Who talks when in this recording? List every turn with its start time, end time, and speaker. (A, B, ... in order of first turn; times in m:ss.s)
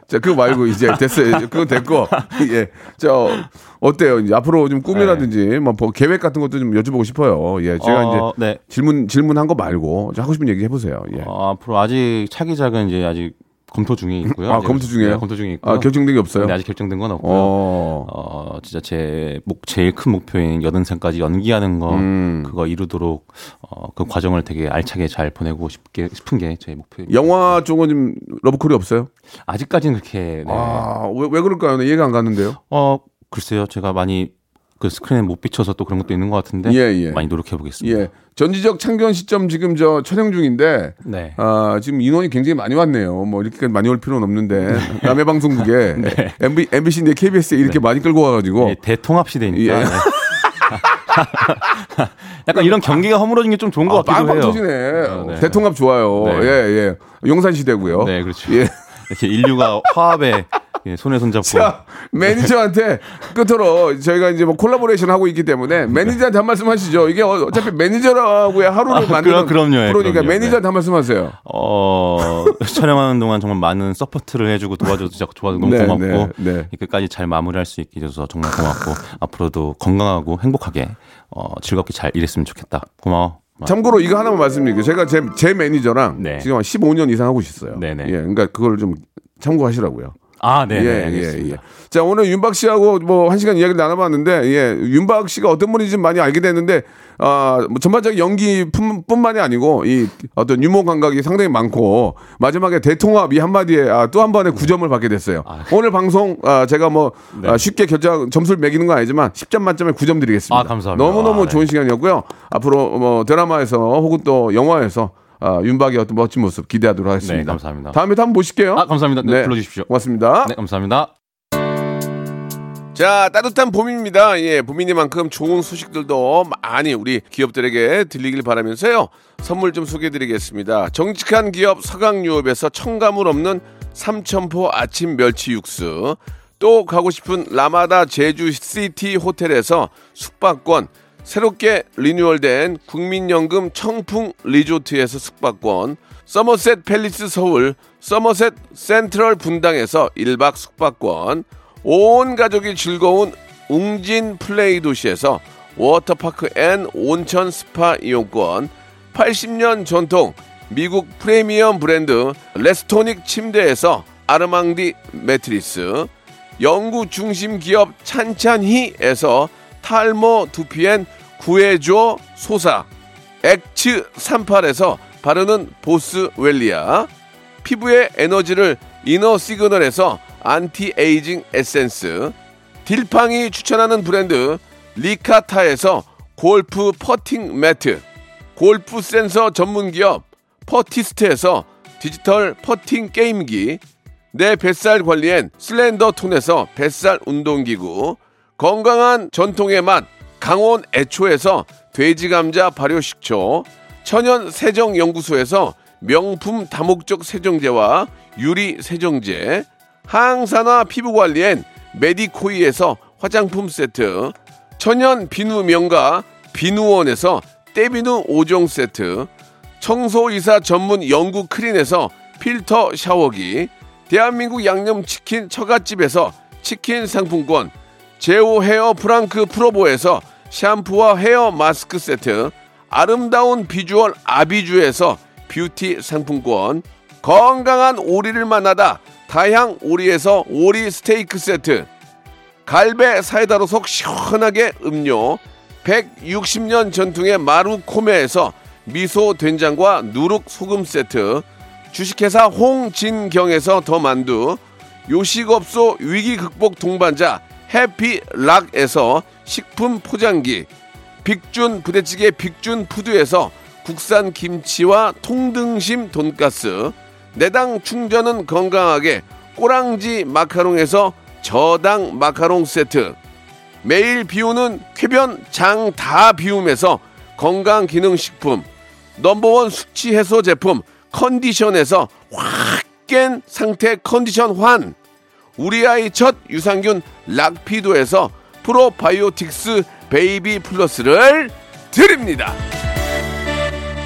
0:00.1-0:11.3 A
0:00.9-0:02.4 B
0:04.9-0:05.3 B
0:07.8-0:08.6 B
0:11.2-0:27.6 B
0:14.3-0:16.6 A
0:17.2-0:18.1 A
0:21.9-0:22.5 A
0:27.1-0:29.1 A
0:29.5-0:30.9 B
0:30.5-0:32.6 A
0:32.7-0:38.1 B
0:36.6-0:37.2 A
0:37.8-0:48.8 A
0:41.0-0:41.4 B
0:44.7-0:46.4 B
0:48.6-0:56.6 B
0:49.5-0:50.8 A
0:52.5-0:53.0 A
0:53.9-0:58.8 A
0:57.8-1:02.5 B
1:01.4-1:11.4 A
1:08.9-1:10.6 B
1:11.4-1:23.7 B
1:15.6-1:16.7 A
1:23.6-1:30.2 A
1:26.2-1:26.5 B
1:27.7-1:28.1 B
1:30.4-1:31.6 B
1:30.7-2:00.5 A
1:45.5-1:45.7 B
1:47.3-1:47.6 B
1:50.5-1:51.7 B
1:57.2-1:58.0 B
1:58.8-1:59.9 B
2:00.4-2:01.1 B
2:02.9-2:52.9 A
2:53.4-2:57.1 A
2:57.6-3:08.0 A
3:08.6-3:13.8 A
3:14.3-4:01.9 A
4:02.7-4:20.7 A
4:21.2-4:33.2 A
4:33.8-4:45.0 A
4:45.6-4:52.6 A